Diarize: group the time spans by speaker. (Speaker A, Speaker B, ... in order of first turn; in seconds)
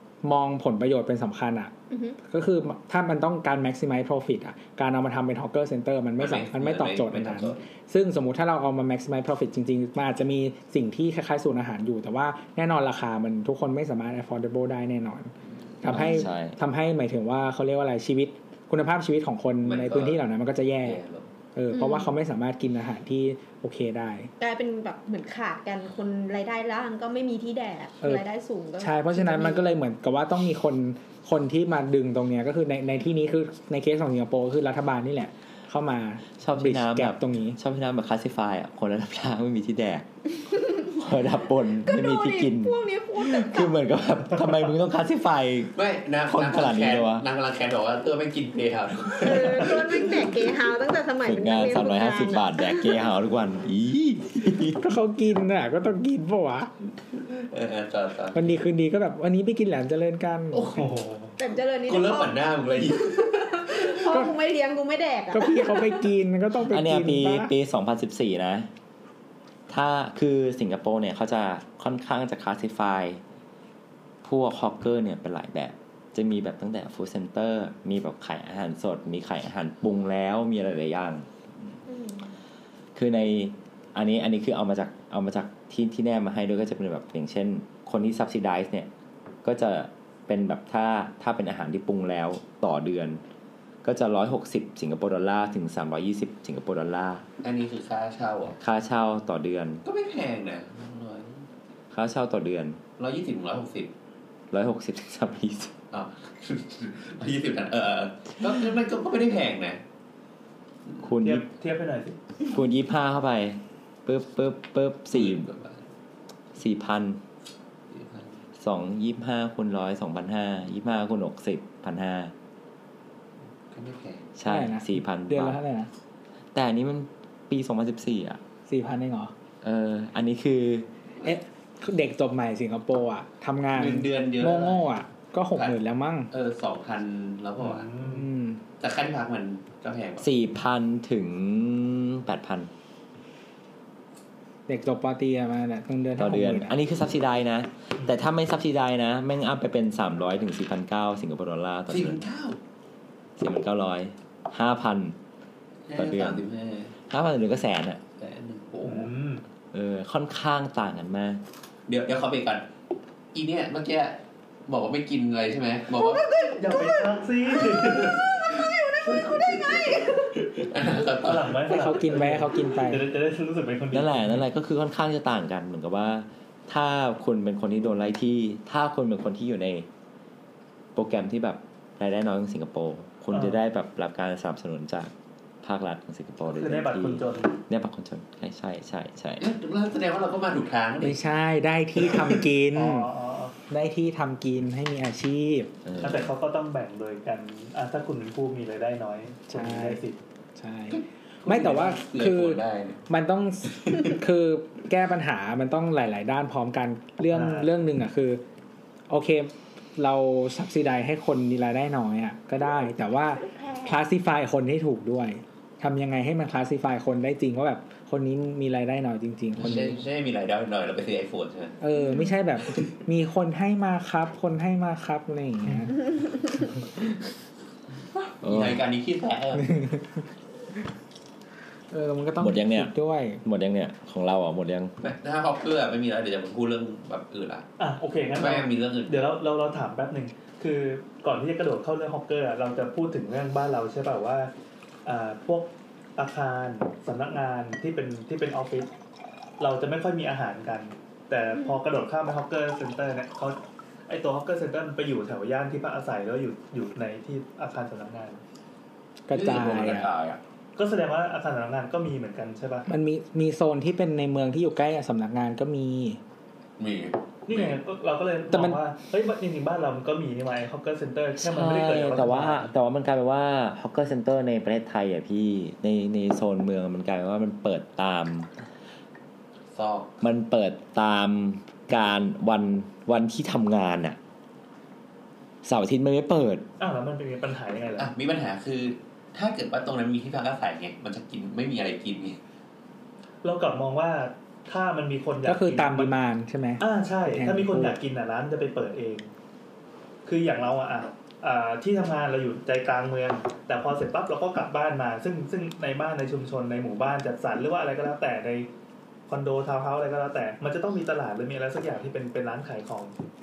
Speaker A: 0.2-1.7, 2.3-21.0, 21.6-24.3, 28.8-37.6, 54.8-56.7, 58.3-60.8, 64.1-64.3, 65.3-67.5, 124.4-125.9, 128.7-129.3, 131.2-136.3, 138.0-138.6, 144.7-146.8, 171.7-173.1, 191.0-193.1, 193.7-195.7, 199.5-200.0, 200.6-208.4, 209.1-220.0, 221.8-226.0, 229.7-230.0, 231.9-233.4, 259.3-260.1, 262.9-266.2, 268.5-268.8, 295.4-298.0
Speaker B: 1.9-2.2, 21.7-22.1, 24.4-29.7, 40.5-41.0, 41.8-43.8, 49.2-53.0, 61.4-62.5, 63.0-66.1, 81.9-82.3, 165.9-167.1, 168.0-170.5, 213.3-214.0, 222.0-222.3
Speaker C: 6.2-7.6, 19.6-20.2, 20.8-21.3, 45.8-50.3, 57.1-58.5, 60.5-60.9, 61.9-64.1, 97.4-98.6, 99.8-101.5, 103.0-103.9, 105.9-109.8, 115.1-115.9, 117.9-118.4, 123.7-124.3, 133.7-134.9, 136.3-137.9, 138.8-140.3, 151.9-152.6, 155.9-156.9, 158.2-159.1, 161.9-162.7, 163.3-166.3, 167.8-168.2, 169.1-172.0, 189.4-191.2, 192.0-192.4, 200.9-203.0, 203.8-204.1, 219.6-221.8, 228.4-229.8, 235.0-237.7, 238.4-239.2, 259.3-260.4, 266.8-267.8, 279.7-280.1, 288.0-292.4
Speaker D: 15.8-16.6, 36.4-40.1, 40.9-47.3, 51.2-54.8, 66.7-68.7, 69.7-73.2, 74.2-81.3, 83.0-88.9, 89.4-93.2, 93.8-97.2, 98.6-99.8, 101.9-102.8, 104.5-105.7, 111.0-111.5, 112.5-115.5, 116.5-117.2, 118.6-122.3, 124.4-125.6, 126.5-128.4, 129.6-130.9, 140.2-142.7, 146.2-152.3, 153.4-155.2, 155.9-156.5, 157.0-158.0, 159.7-161.4, 173.9-179.9, 180.9-185.1, 185.6-189.5, 195.8-196.3, 228.4-228.8, 232.4-234.9, 271.4-278.5, 280.2-284.2, 285.6-286.6
Speaker E: 60.7-61.4, 111.2-112.2, 137.6-138.3, 158.8-159.4, 166.4-168.2, 170.8-174.4, 183.3-183.6, 186.5-187.6, 192.7-193.6, 196.0-200.2, 207.3-207.7, 237.8-244.5, 245.1-248.9, 249.6-258.4, 260.8-262.9, 267.5-272.7, 286.8-288.1, 293.4-296.1, 296.8-299.3, 300.2-308.7, 309.3-313.1